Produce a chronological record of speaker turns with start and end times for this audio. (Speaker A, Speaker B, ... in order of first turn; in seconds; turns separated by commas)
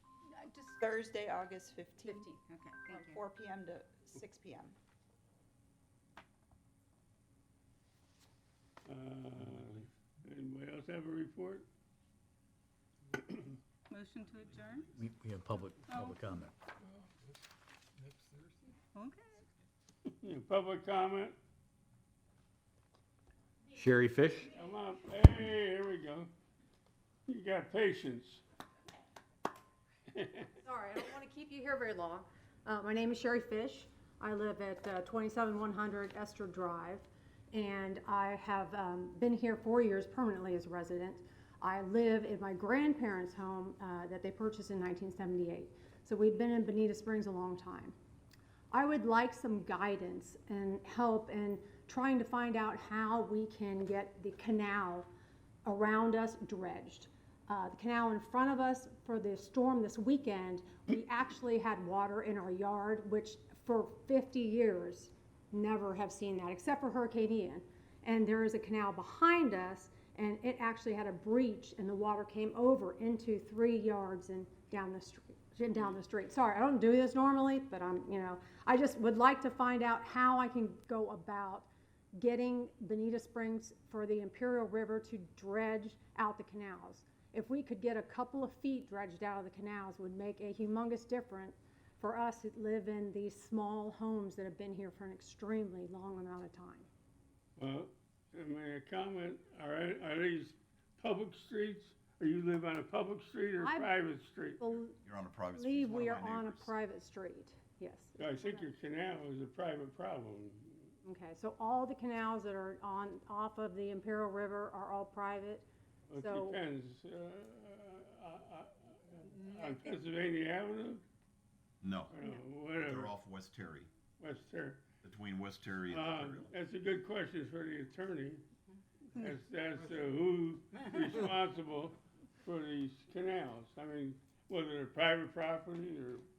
Speaker A: 0.7-2.2, Speaker B: 2.0-2.3, Speaker C: 2.3-3.2, Speaker A: 2.9-4.8, Speaker D: 8.8-11.7, Speaker D: 13.1-13.6, Speaker C: 13.9-14.9, Speaker E: 15.0-16.5, Speaker C: 15.8-16.2, Speaker C: 18.9-19.4, Speaker D: 20.2-21.4, Speaker E: 23.8-24.4, Speaker D: 24.5-26.3, Speaker D: 27.3-28.4, Speaker D: 30.1-30.5, Speaker B: 30.6-47.9, Speaker B: 48.7-55.1, Speaker B: 55.6-96.9, Speaker D: 97.6-104.6, Speaker B: 103.6-103.9, Speaker B: 104.6-105.0, Speaker F: 105.0-106.7, Speaker B: 105.5-108.7, Speaker D: 108.2-110.9, Speaker B: 111.0-116.6, Speaker D: 116.1-121.0, Speaker F: 121.8-122.1, Speaker D: 122.1-123.1, Speaker F: 122.7-123.9, Speaker D: 124.2-124.8, Speaker F: 125.0-126.5, Speaker D: 125.9-128.4, Speaker D: 129.1-136.2